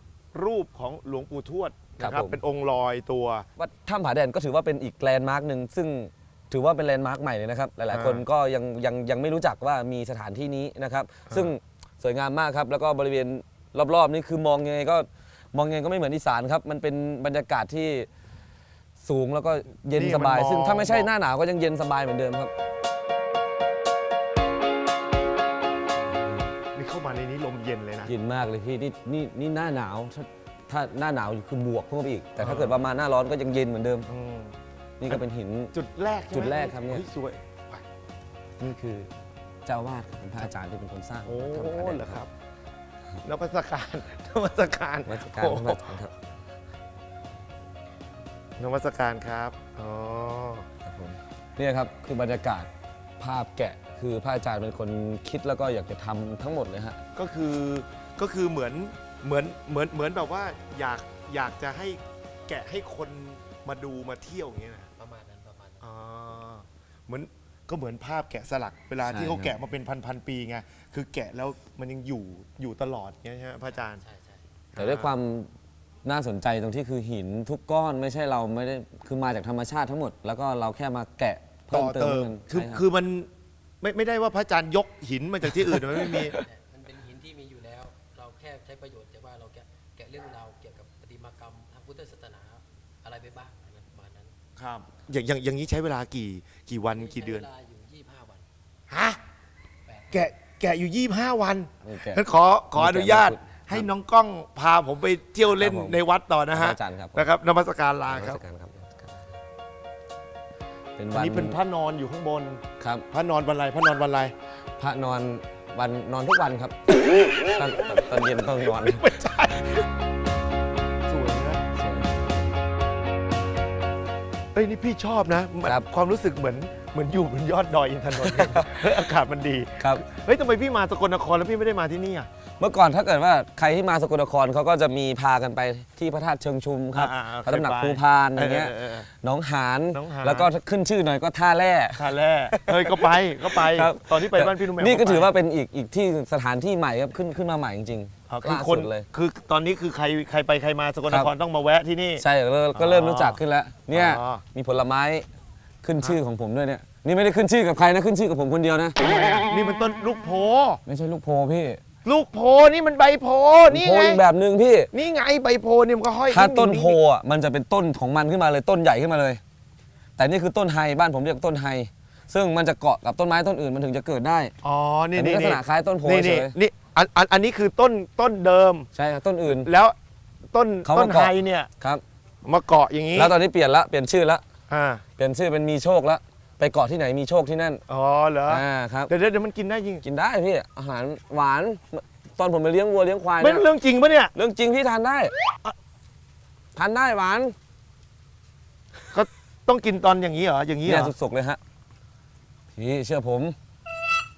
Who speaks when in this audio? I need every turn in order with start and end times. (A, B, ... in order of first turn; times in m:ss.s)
0:00.3-0:03.5 A
0:02.0-0:02.4 B
0:03.6-0:18.1 B
0:07.9-0:08.2 A
0:19.0-0:22.5 B
0:19.9-0:21.1 A
0:26.7-0:28.1 A
0:28.0-0:34.1 B
0:32.4-0:32.8 A
0:34.1-0:34.5 A
0:35.0-0:35.7 B
0:35.7-0:37.8 A
0:36.3-0:37.0 B
0:38.6-0:39.1 B
0:39.6-0:42.2 B
0:41.2-0:42.3 A
0:43.2-0:46.0 A
0:45.0-0:46.1 B
0:48.6-0:50.7 A
0:50.8-0:52.7 B
0:53.2-0:57.0 B
0:57.2-1:04.9 A
1:05.0-1:05.8 C
1:05.8-1:14.0 A
1:09.0-1:09.5 B
1:13.8-1:14.4 C
1:14.7-1:15.1 A
1:14.8-1:15.5 B
1:16.0-1:22.8 B
1:21.7-1:23.3 A
1:23.8-1:26.4 A
1:25.8-1:26.4 B
1:26.4-1:34.3 C
1:34.6-1:37.5 A
1:37.0-1:38.4 C
1:38.9-1:39.2 A
1:39.9-1:40.3 C
1:40.1-1:48.4 A
1:41.8-1:42.2 B
1:42.7-1:43.9 B
1:45.6-1:46.0 B
1:46.5-1:47.2 B
1:48.1-1:49.1 B
1:51.0-1:51.6 B
1:51.1-1:54.3 A
1:52.8-1:53.0 B
1:54.8-1:59.0 B
1:58.6-1:59.8 A
2:01.1-2:01.6 A
2:01.8-2:02.1 B
2:04.5-2:12.3 A
2:08.2-2:08.6 B
2:12.6-2:22.1 B
2:16.9-2:19.1 A
2:19.9-2:20.5 A
2:22.0-2:25.3 A
2:23.5-2:29.1 B
2:28.3-2:33.4 A
2:32.2-2:35.2 B
2:33.9-2:34.4 A
2:35.8-2:39.5 B
2:39.4-2:40.8 A
2:40.8-2:41.8 B
2:42.0-2:44.2 A
2:43.7-2:44.9 B
2:44.9-2:47.0 A
2:46.3-2:49.4 B
2:50.2-2:54.5 B
2:54.6-2:58.9 A
2:55.1-2:56.5 B
2:58.9-2:59.7 B
2:59.5-2:59.9 A
3:00.5-3:01.7 A
3:00.8-3:02.0 B
3:02.4-3:03.3 A
3:03.2-3:04.4 B
3:04.7-3:05.0 A
3:05.2-3:07.8 B
3:07.9-3:10.0 A
3:08.5-3:09.1 B
3:10.0-3:13.6 B
3:13.4-3:14.3 A
3:14.3-3:15.3 B
3:16.7-3:17.5 B
3:19.1-3:21.1 A
3:20.8-3:21.6 B
3:22.7-3:23.5 B